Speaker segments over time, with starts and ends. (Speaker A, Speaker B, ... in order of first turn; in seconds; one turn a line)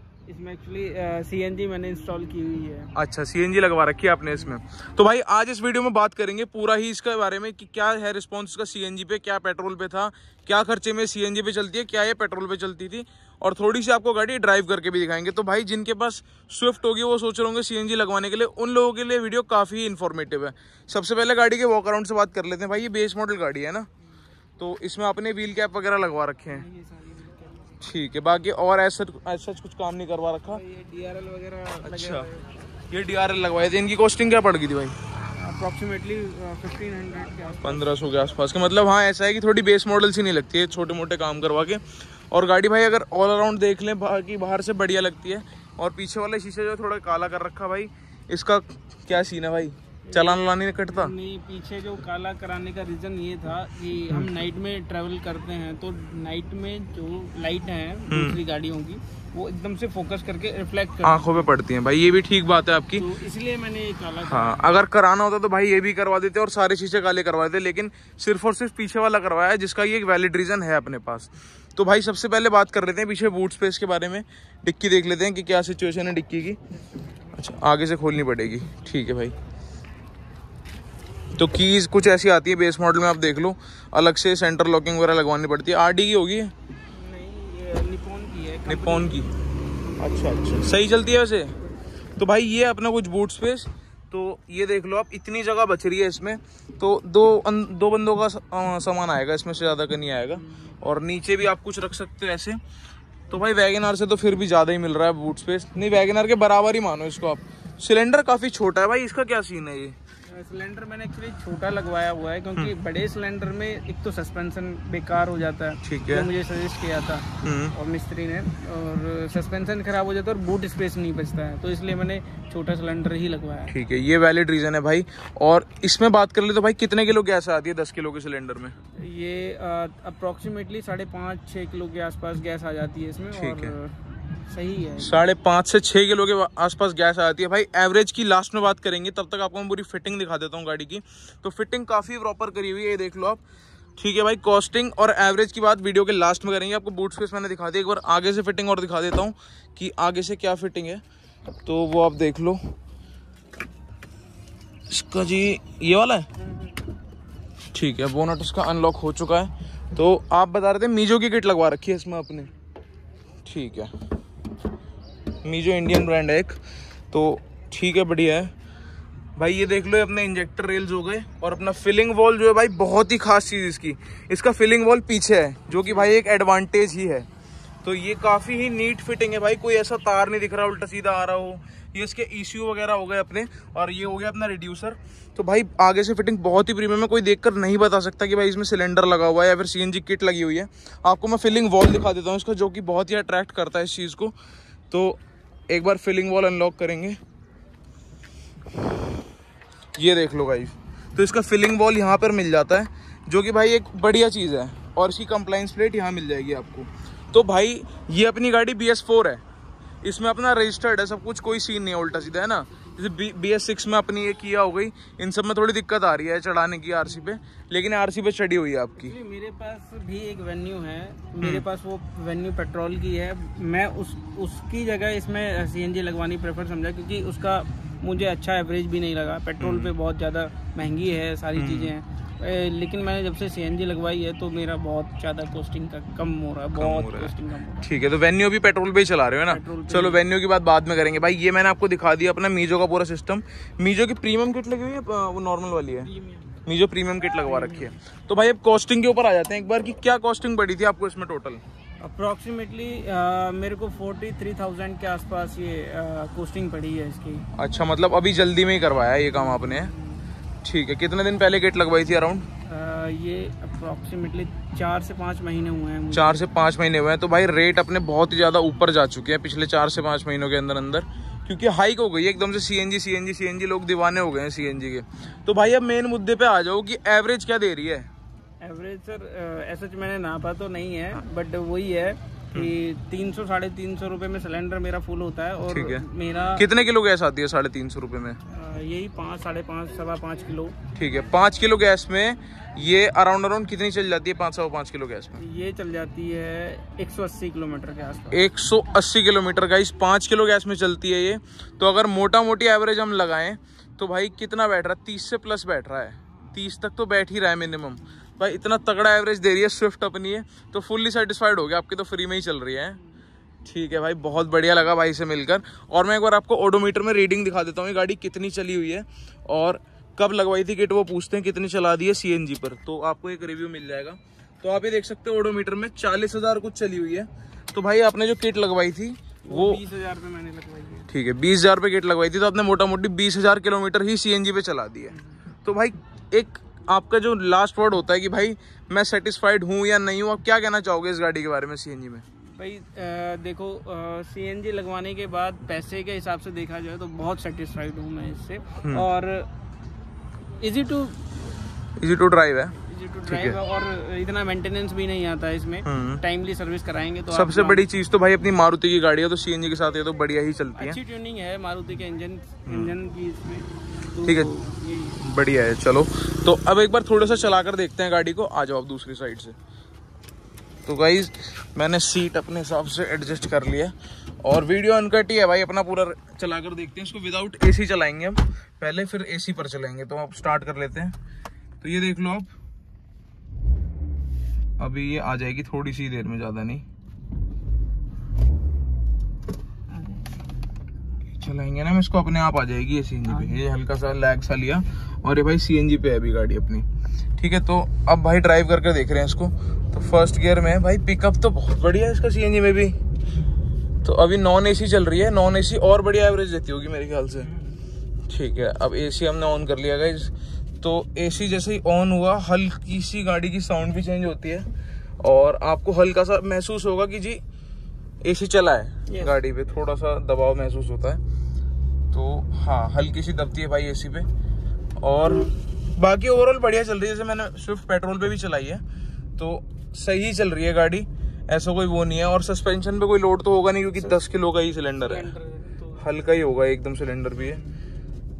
Speaker A: 0.3-2.9
Speaker B: 2.9-23.9
Speaker B: 24.6-26.6
Speaker A: 26.5-27.8
Speaker B: 27.8-30.6
Speaker A: 30.5-32.5
Speaker B: 31.8-32.3
Speaker B: 32.9-34.9
Speaker A: 35.4-37.9
Speaker B: 37.6-51.1
Speaker A: 50.1-61.4
Speaker B: 58.1-58.4
Speaker B: 61.0-63.0
Speaker A: 63.0-64.7
Speaker B: 64.2-76.6
Speaker B: 77.3-79.3
Speaker B: 81.3-86.5
Speaker A: 86.9-89.3
Speaker B: 88.7-89.3
Speaker B: 90.0-91.6
Speaker B: 92.2-102.6
Speaker B: 103.3-110.0
Speaker A: 110.3-123.7
Speaker B: 115.8-116.3
Speaker B: 117.4-117.7
Speaker B: 123.7-128.7
Speaker A: 128.9-133.9
Speaker B: 133.3-133.7
Speaker A: 134.5-135.2
Speaker B: 135.0-143.4
Speaker B: 144.0-151.0
Speaker B: 151.7-152.6
Speaker B: 154.9-156.3
Speaker A: 156.4-156.7
Speaker B: 157.7-162.5
Speaker B: 163.4-163.9
Speaker B: 165.4-166.6
Speaker B: 167.1-168.5
Speaker B: 169.3-177.3
Speaker A: 175.8-176.1
Speaker B: 177.8-194.3
Speaker B: 194.9-197.2
Speaker B: 199.9-209.4
Speaker B: 210.0-219.2
Speaker A: 219.0-237.9
Speaker B: 229.6-229.9
Speaker B: 231.6-231.9
Speaker B: 236.8-246.1
Speaker A: 239.5-240.2
Speaker A: 246.1-246.5
Speaker B: 246.6-251.6
Speaker A: 247.4-247.9
Speaker A: 252.0-257.5
Speaker B: 257.5-259.9
Speaker A: 259.3-260.2
Speaker B: 260.6-262.5
Speaker A: 262.6-266.4
Speaker B: 266.1-278.1
Speaker A: 278.6-286.7
Speaker B: 285.7-286.0
Speaker B: 286.6-288.4
Speaker A: 288.5-290.7
Speaker B: 290.9-295.4
Speaker A: 295.4-298.4
Speaker B: 298.3-313.0
Speaker A: 313.0-313.2
Speaker B: 313.6-329.8
Speaker A: 329.4-331.1
Speaker B: 331.1-342.2
Speaker A: 342.4-349.5
Speaker A: 350.6-351.4
Speaker B: 352.0-352.7
Speaker A: 352.9-357.8
Speaker B: 353.2-353.6
Speaker B: 355.8-356.2
Speaker B: 357.3-361.0
Speaker A: 360.7-365.2
Speaker B: 362.6-362.9
Speaker B: 364.2-364.5
Speaker B: 365.2-369.5
Speaker B: 370.9-381.1
Speaker B: 381.8-382.5
Speaker B: 384.8-386.8
Speaker A: 389.9-390.4
Speaker B: 391.3-396.9
Speaker A: 393.2-393.6
Speaker B: 397.4-403.0
Speaker B: 404.0-407.5
Speaker A: 407.4-407.8
Speaker B: 408.3-414.7
Speaker B: 415.2-417.4
Speaker B: 418.2-421.2
Speaker A: 419.1-419.3
Speaker B: 422.1-424.3
Speaker B: 425.0-428.8
Speaker B: 429.4-435.3
Speaker A: 435.0-436.1
Speaker B: 436.0-437.6
Speaker A: 437.4-437.8